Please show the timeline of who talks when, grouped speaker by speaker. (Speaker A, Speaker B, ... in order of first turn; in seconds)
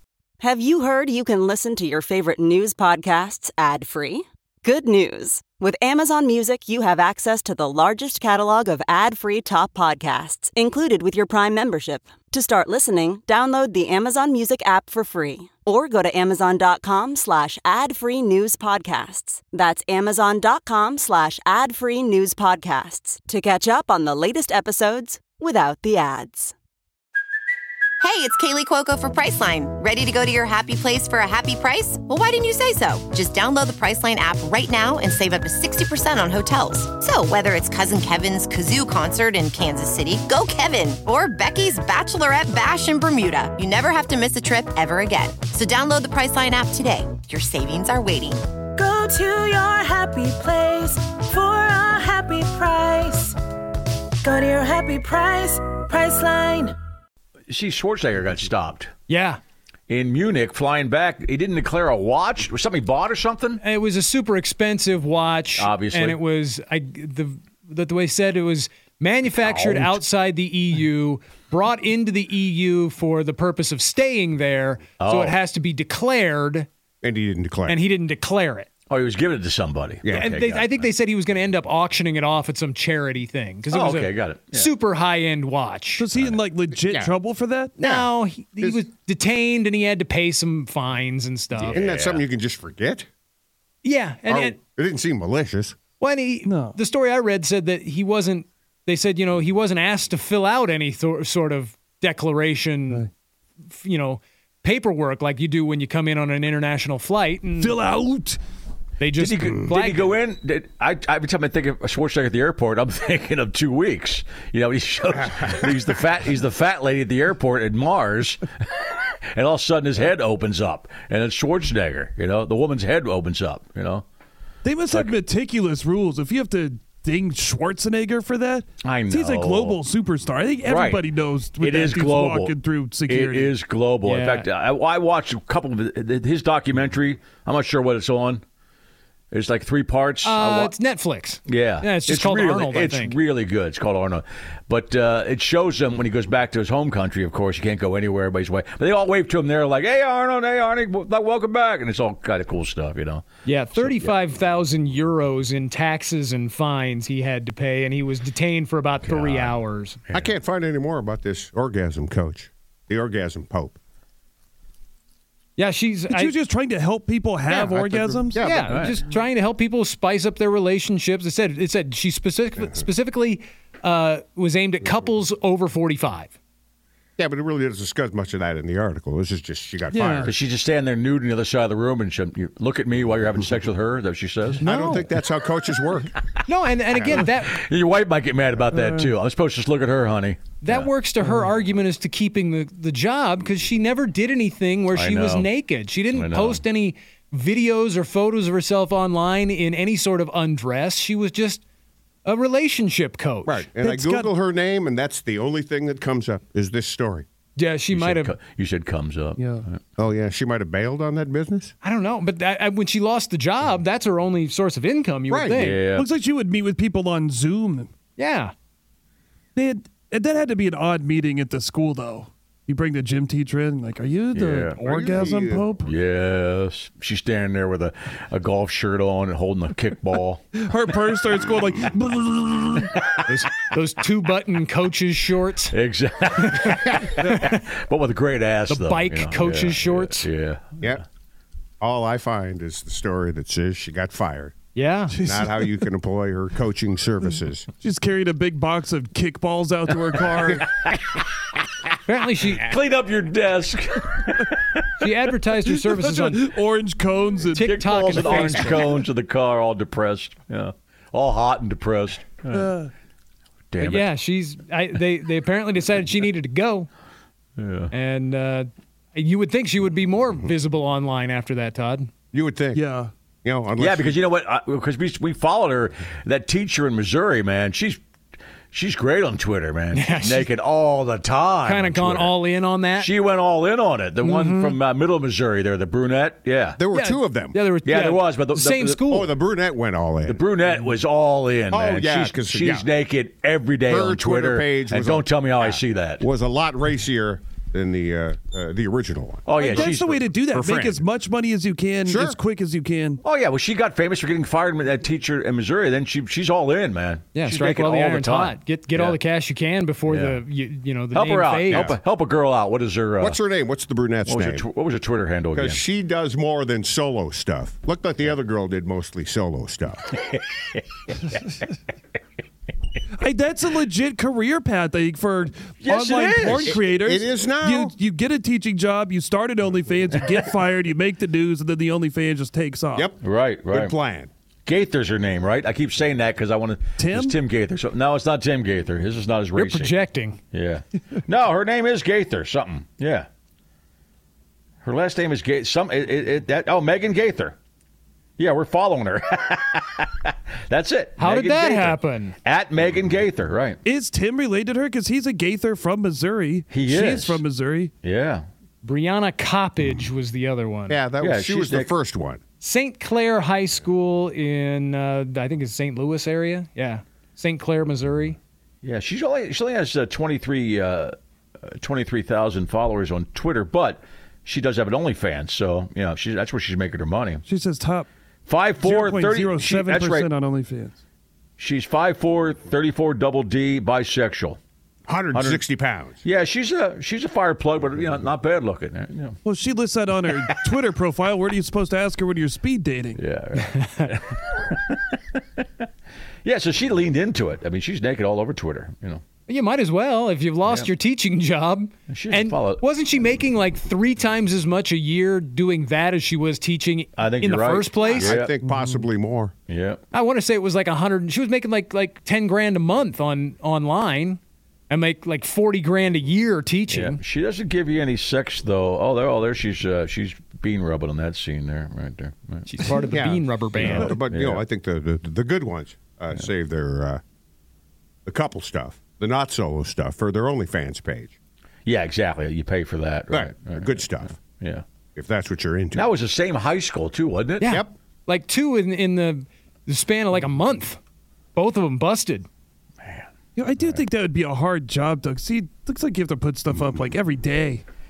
Speaker A: 0.4-26.5
Speaker B: 28.0-48.4
Speaker C: 48.8-53.4, 54.2-56.8
Speaker D: 57.5-58.9, 59.9-63.6, 65.6-66.2, 69.4-69.8, 75.0-75.3, 78.9-80.9, 83.7-84.7, 91.5-92.2, 109.2-124.0, 124.9-125.1, 128.8-129.8, 130.6-138.4, 139.3-140.8, 141.5-153.2, 153.8-154.1, 159.0-159.5, 168.7-168.9, 180.2-184.6, 187.0-190.9, 194.9-195.5, 196.1-196.6, 207.9-209.8, 215.6-216.1, 224.3-224.8, 225.8-230.4, 235.7-241.0, 250.8-251.2, 252.5-254.9, 257.6-262.7, 263.7-264.1, 267.6-267.9, 273.8-278.0, 278.7-282.4, 283.0-286.8, 287.8-289.0, 290.2-296.2, 299.4-300.1, 303.2-309.2, 310.1-310.4, 311.1-313.4, 314.2-315.8, 320.2-321.4, 325.8-326.8, 333.2-333.9, 334.6-343.3, 344.8-347.6, 348.4-353.8, 356.7-357.4, 358.0-358.4, 361.2-361.9, 368.8-377.4, 378.5-380.3, 381.6-384.6, 385.3-385.6, 386.2-389.4, 393.1-395.6, 396.4-399.2, 402.1-402.8, 407.2-408.6, 409.7-410.0, 416.9-423.0, 423.8-424.6, 431.8-434.8, 435.9-437.8, 443.0-443.3
Speaker E: 59.1-59.4, 63.6-76.7, 77.7-78.7, 80.1-86.0, 87.8-91.8, 93.8-94.5, 96.0-103.0, 103.7-107.8, 109.0-110.2, 134.0-134.5, 140.2-143.2, 153.4-160.0, 165.6-166.3, 168.4-176.3, 184.6-185.0, 186.5-187.6, 190.6-201.6, 202.2-203.7, 207.6-208.3, 211.8-215.8, 218.2-218.5, 233.2-235.7, 236.4-237.6, 238.7-240.3, 244.7-245.1, 252.1-252.7, 255.0-256.4, 257.5-258.9, 263.8-266.9, 267.9-272.1, 279.9-280.5, 281.6-283.1, 284.2-284.7, 286.9-289.3, 307.3-311.9, 339.5-340.4, 351.2-352.4, 358.8-361.0, 362.6-368.4, 399.5-408.4, 410.1-417.2, 422.6-424.1, 437.6-441.0, 441.5-442.4
Speaker F: 77.0-77.8, 80.0-80.3, 86.7-87.1, 87.8-88.8, 91.7-93.1, 94.3-95.8, 160.1-163.8, 167.5-168.7, 172.6-172.8, 177.2-180.3, 184.6-186.1, 203.4-207.2, 210.0-211.7, 215.3-215.6, 224.8-225.7, 241.8-244.5, 245.2-247.7, 272.3-272.8, 273.4-274.2, 286.8-287.6, 289.1-290.4, 291.7-292.9, 293.9-301.0, 302.1-302.4, 311.7-312.0, 313.2-314.6, 315.5-320.1, 326.6-327.9, 332.9-334.3, 360.9-362.4, 385.1-386.2, 408.1-409.5, 423.1-427.2, 428.2-431.3, 433.3-434.4, 435.1-436.1, 437.6-437.9
Speaker G: 86.0-87.8, 96.4-96.8, 107.6-108.4, 124.6-133.5, 166.1-168.5, 179.9-180.3, 188.7-189.1, 203.8-204.3, 209.4-209.6, 215.9-217.9, 219.6-225.9, 230.5-232.9, 245.1-245.7, 247.8-250.7, 255.6-258.6, 262.5-262.9, 272.7-273.1, 299.5-303.2, 323.2-333.1, 337.0-337.4, 353.9-357.9, 377.4-378.1, 378.8-380.9, 389.4-393.2, 408.6-409.0, 443.6-447.8